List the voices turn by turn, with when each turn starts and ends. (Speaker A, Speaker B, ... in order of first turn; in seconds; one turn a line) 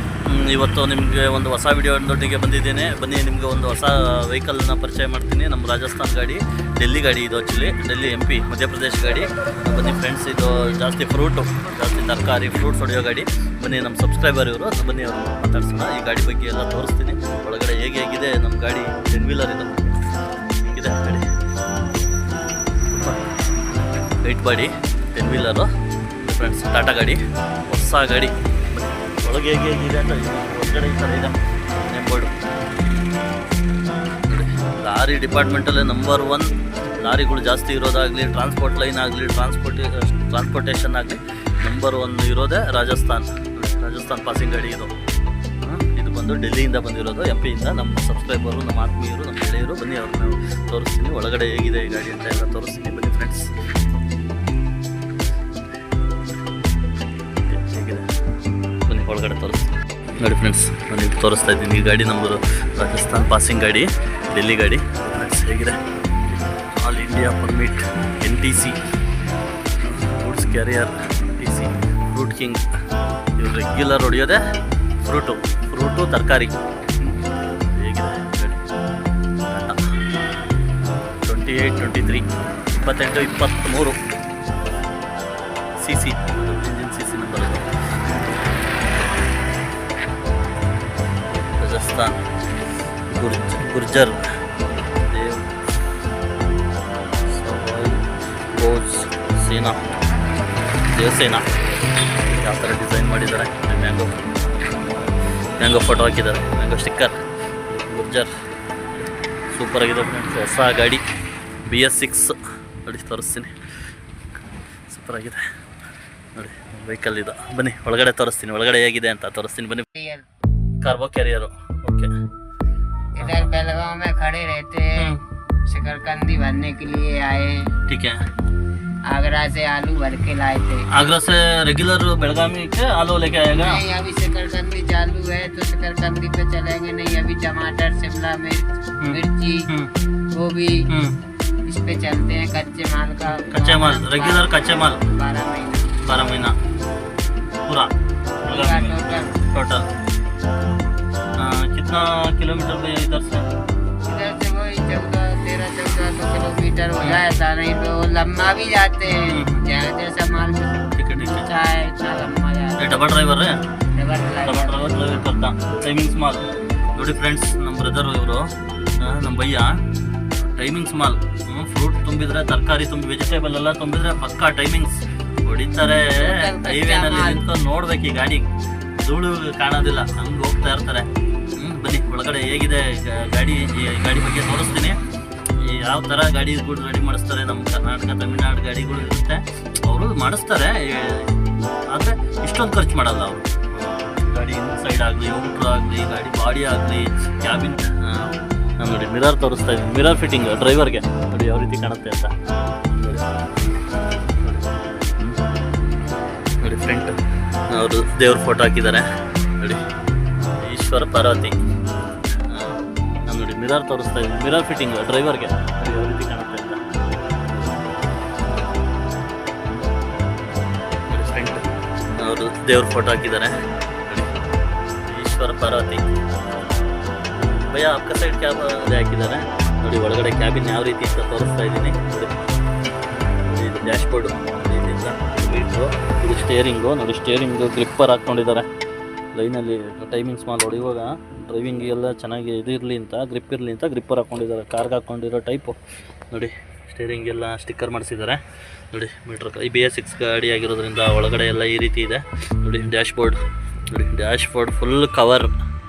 Speaker A: 0.3-19.9
Speaker A: 20.6-21.2
Speaker A: 22.9-23.2
Speaker A: 24.2-25.7
Speaker A: 26.2-32.3
Speaker A: 34.3-44.9
Speaker A: 45.6-53.5
Speaker A: 57.5-58.0
Speaker A: 58.9-68.8
Speaker A: 69.8-72.6
Speaker A: 73.4-74.4
Speaker A: 75.0-77.1
Speaker A: 77.7-78.6
Speaker A: 79.5-79.8
Speaker A: 81.2-82.3
Speaker A: 82.8-84.0
Speaker A: 85.8-87.7
Speaker A: 91.3-92.2
Speaker A: 93.1-94.2
Speaker A: 95.1-95.4
Speaker A: 97.2-98.0
Speaker A: 98.5-99.8
Speaker A: 100.9-101.5
Speaker A: 102.2-104.3
Speaker A: 105.6-108.3
Speaker A: 108.9-111.0
Speaker A: 111.7-112.3
Speaker A: 112.8-113.5
Speaker A: 114.9-115.4
Speaker A: 116.3-119.9
Speaker B: 119.9-120.2
Speaker A: 120.8-122.1
Speaker B: 123.1-125.1
Speaker A: 123.2-123.5
Speaker A: 125.0-125.2
Speaker B: 125.7-127.7
Speaker A: 127.9-128.2
Speaker B: 129.1-130.8
Speaker A: 130.9-133.8
Speaker B: 133.5-139.7
Speaker A: 139.0-139.9
Speaker B: 140.3-140.9
Speaker A: 140.9-141.2
Speaker B: 141.7-145.9
Speaker A: 143.5-145.0
Speaker A: 146.0-146.6
Speaker A: 147.6-147.9
Speaker A: 148.4-149.9
Speaker B: 148.5-149.3
Speaker A: 151.4-153.5
Speaker B: 154.0-162.8
Speaker A: 159.2-159.7
Speaker A: 160.9-161.5
Speaker A: 162.8-163.6
Speaker B: 163.9-165.2
Speaker A: 164.4-169.8
Speaker A: 170.4-178.5
Speaker B: 176.1-177.4
Speaker A: 179.0-185.0
Speaker A: 185.6-191.3
Speaker A: 191.9-202.3
Speaker A: 202.9-203.2
Speaker A: 204.4-205.4
Speaker A: 206.6-207.2
Speaker A: 207.7-209.1
Speaker A: 210.6-211.6
Speaker A: 212.5-216.8
Speaker A: 217.5-217.8
Speaker A: 221.1-221.6
Speaker A: 222.2-223.5
Speaker A: 224.1-224.3
Speaker A: 225.0-226.0
Speaker A: 227.6-232.3
Speaker A: 233.4-238.7
Speaker A: 239.3-245.8
Speaker A: 246.3-255.5